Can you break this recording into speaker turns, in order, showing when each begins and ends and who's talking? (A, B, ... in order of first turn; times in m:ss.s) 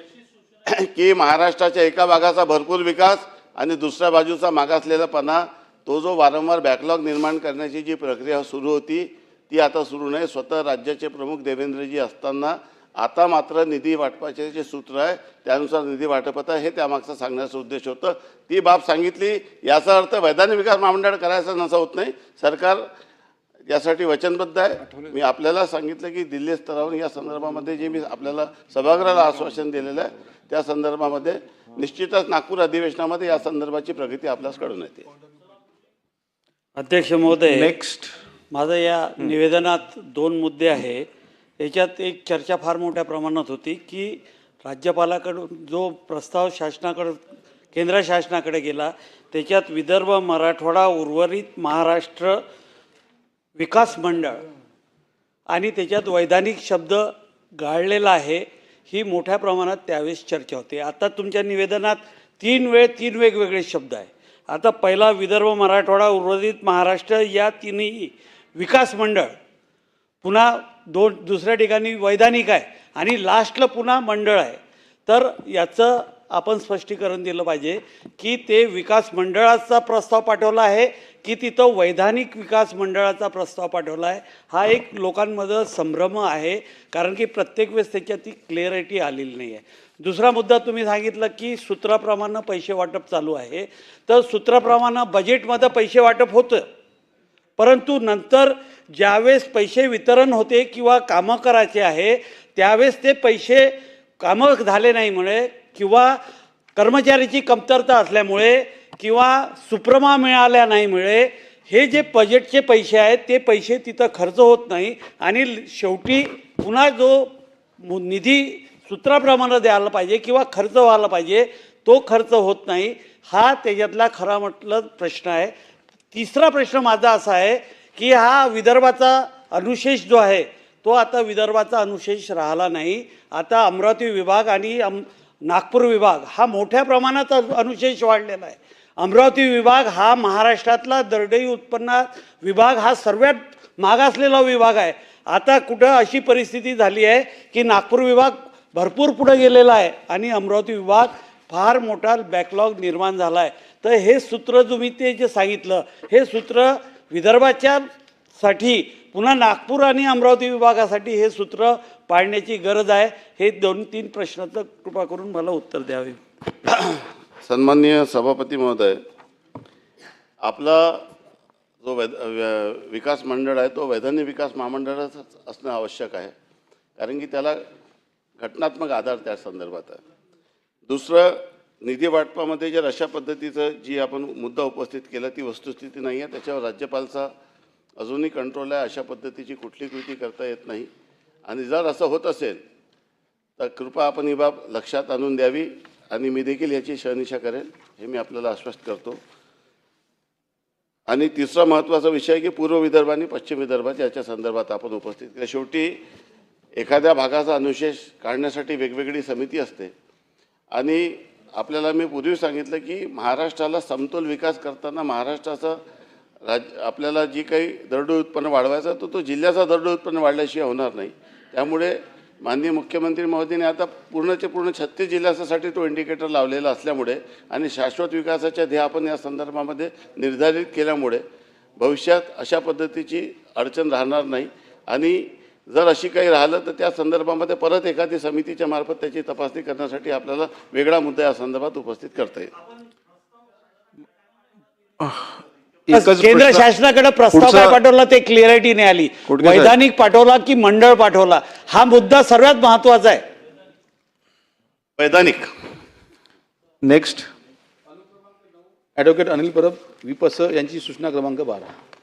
0:00.7-0:22.9 A
0:23.7-0:35.1 A
0:36.8-0:37.8 B
0:37.3-0:38.1 C
0:38.5-0:41.1 B
0:41.6-0:47.2 B
0:47.7-0:52.4 B
0:53.6-0:54.4 B
0:55.5-1:09.3 B
1:10.2-1:36.6 B
1:37.6-1:46.2 B
1:46.8-1:57.3 B
1:57.8-2:05.5 B
2:06.1-2:37.8 B
2:38.4-2:46.2 B
2:46.7-2:49.0 A
2:50.4-2:51.0 A
2:51.8-2:56.3 A
2:57.0-2:57.6 A
2:58.4-3:00.0 A
3:00.9-3:07.3 A
3:08.0-3:10.9 A
3:11.5-3:12.6 A
3:13.6-3:19.2 A
3:21.1-3:26.0 A
3:26.8-3:29.9 A
3:30.7-3:35.8 A
3:36.4-3:51.2 A
3:51.8-4:02.5 A
4:05.0-4:05.3 C
4:05.8-4:06.7 C
4:05.9-4:13.2 B
4:07.3-4:07.8 C
4:09.3-4:09.8 C
4:15.0-4:15.5 A
4:16.8-4:17.3 C
4:19.0-4:20.0 C
4:19.0-4:21.7 D
4:21.1-4:21.4 C